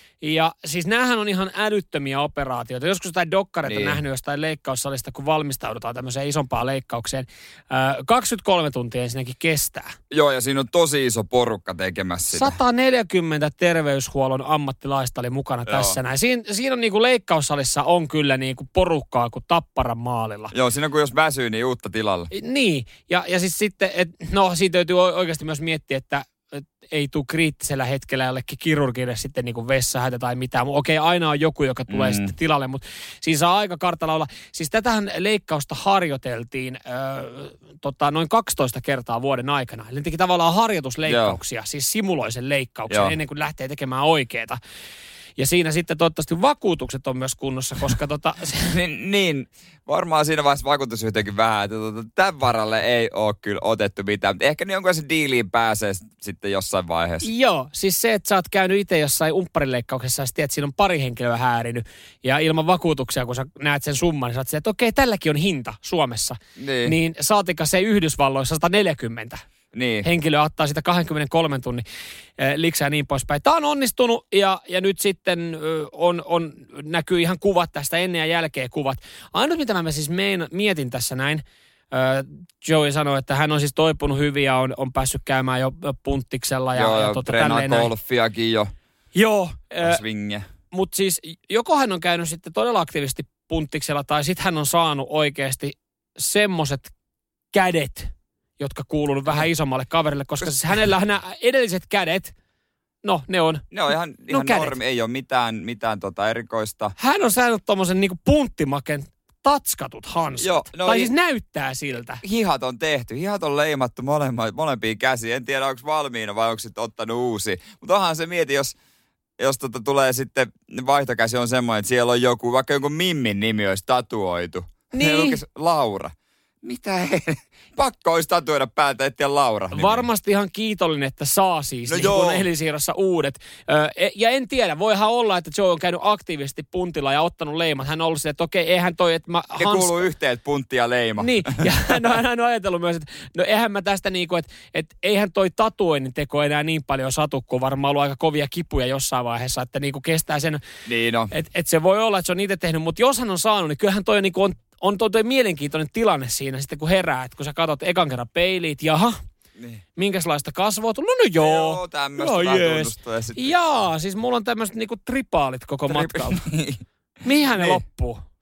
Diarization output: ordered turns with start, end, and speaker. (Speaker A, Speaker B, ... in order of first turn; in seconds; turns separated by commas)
Speaker A: 0.2-9.9, Speaker B: 3.7-4.0, Speaker B: 10.1-12.6, Speaker A: 12.3-20.5, Speaker B: 15.7-16.0, Speaker B: 20.5-22.3, Speaker A: 22.3-44.6, Speaker B: 31.9-32.3, Speaker B: 41.1-41.4, Speaker B: 42.9-43.1, Speaker A: 45.4-48.8, Speaker B: 48.6-57.3, Speaker A: 57.2-69.5, Speaker B: 66.6-67.0, Speaker B: 69.7-70.1, Speaker A: 70.0-71.8, Speaker A: 72.4-87.9, Speaker B: 86.8-88.7, Speaker A: 89.2-90.0, Speaker B: 89.8-90.5, Speaker A: 90.7-96.9, Speaker A: 97.5-102.3, Speaker A: 103.0-103.7, Speaker B: 103.7-107.0, Speaker A: 104.3-104.8, Speaker A: 107.0-112.2, Speaker B: 110.4-111.1, Speaker B: 112.2-118.8, Speaker B: 119.4-130.1, Speaker A: 124.9-125.4, Speaker A: 129.7-140.0, Speaker B: 131.9-132.5, Speaker B: 139.6-141.7, Speaker A: 141.2-150.6, Speaker B: 150.9-151.3, Speaker A: 151.3-159.2, Speaker A: 160.0-166.4, Speaker B: 161.4-163.5, Speaker B: 165.9-166.8, Speaker A: 167.2-168.2, Speaker B: 167.5-167.8